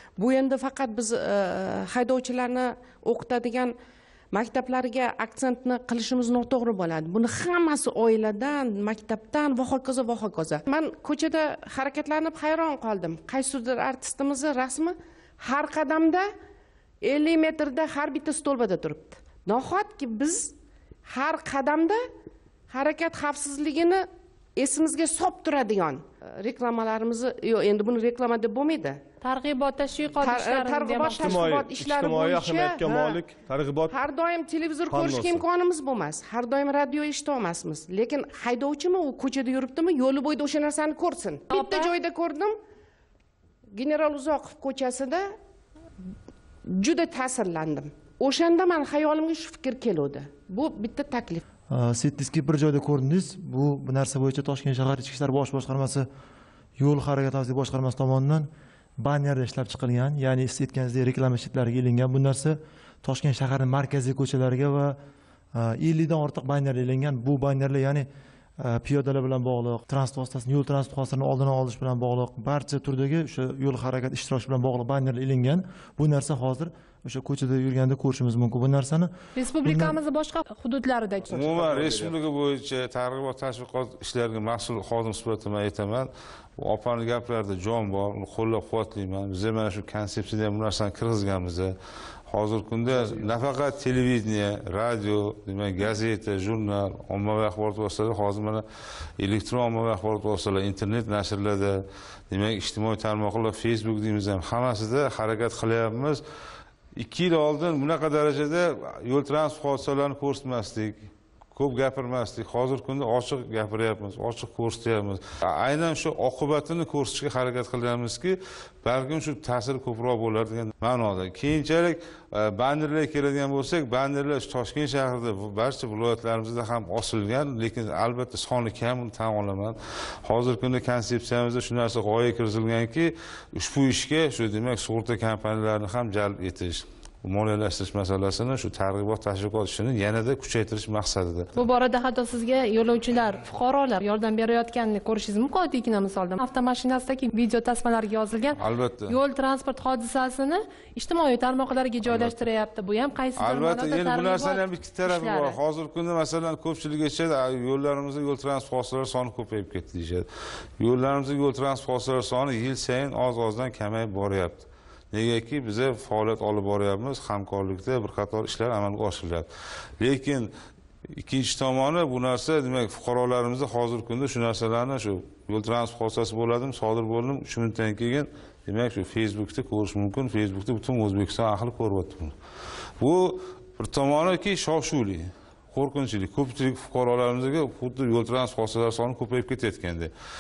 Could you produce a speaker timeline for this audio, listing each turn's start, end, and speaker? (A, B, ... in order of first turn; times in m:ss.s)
0:00.2-0:03.7 A
0:04.3-0:16.3 A
0:17.0-0:20.5 A
0:21.1-0:22.0 A
0:22.7-0:29.0 A
0:29.2-0:31.5 B
0:30.2-0:33.2 A
0:31.1-0:34.0 C
0:33.9-0:42.6 A
0:34.9-0:35.4 C
0:41.5-0:41.9 B
0:43.7-0:45.3 A
0:46.7-0:51.4 A
0:51.7-0:56.0 D
0:56.8-0:58.5 D
0:59.0-1:04.9 D
1:05.6-1:08.1 D
1:08.6-1:19.1 D
1:19.4-1:21.6 B
1:19.6-1:20.0 D
1:21.3-1:31.7 E
1:21.4-1:22.1 C
1:32.3-1:38.6 E
1:39.2-1:46.2 E
1:47.0-2:21.5 E
2:21.6-2:35.6 B
2:28.6-2:29.2 E
2:32.0-2:32.4 E
2:33.4-2:40.3 E
2:40.8-2:49.5 E
2:50.0-2:50.5 E
2:51.1-3:02.3 E
3:03.0-3:10.1 E